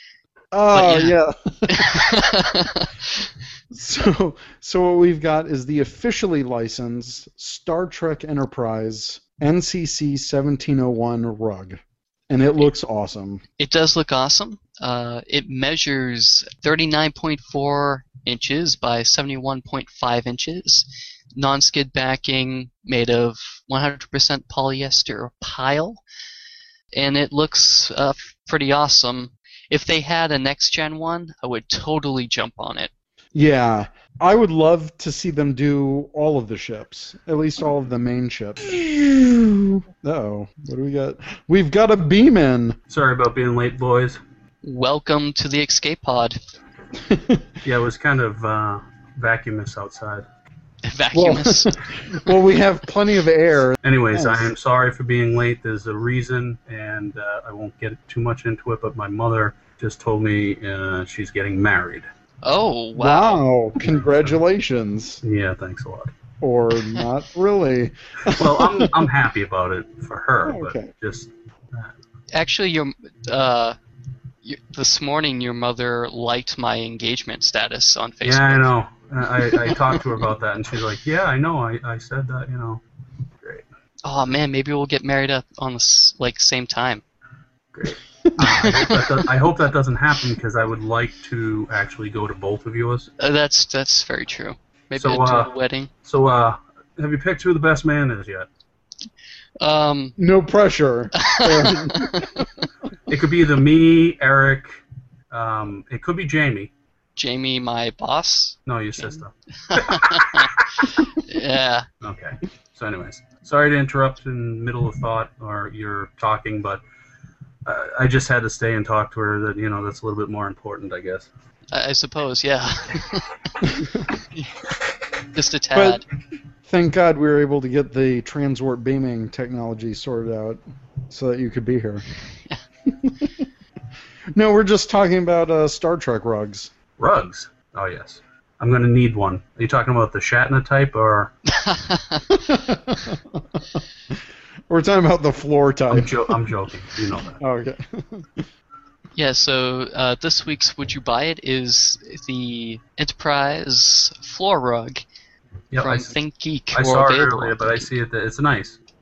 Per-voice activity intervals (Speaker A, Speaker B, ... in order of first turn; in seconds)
Speaker A: 0.5-2.3, 3.7-13.4, 33.3-42.8, 47.0-47.5, 51.1-54.5, 63.0-65.2, 66.4-69.1, 70.4-70.9, 88.2-88.8, 100.2-102.5, 123.6-124.0, 125.7-126.0, 126.6-132.1, 132.9-133.4, 134.3-136.7, 142.3-144.1, 144.7-146.4, 147.3-148.5
Speaker B: 0.7-1.1, 1.7-3.2, 13.6-26.0, 26.9-32.9, 44.6-46.4, 50.8-51.7, 62.4-63.4, 72.3-73.8, 74.4-78.7, 84.0-87.0, 88.4-89.1, 93.2-95.9, 99.6-100.1, 101.2-102.4, 107.2-108.6, 109.6-111.8, 121.7-123.6, 125.3-126.0, 141.5-142.3, 149.2-155.0, 155.8-157.9
Speaker C: 42.9-44.2, 47.6-50.2, 53.8-62.1, 65.2-66.1, 68.3-71.9, 78.2-82.8, 87.7-93.1, 95.0-95.5, 96.0-98.5, 103.1-104.8, 105.3-106.7, 108.7-110.9, 112.0-116.8, 117.7-121.3, 137.0-141.3, 145.9-147.4, 155.7-156.1, 156.7-158.8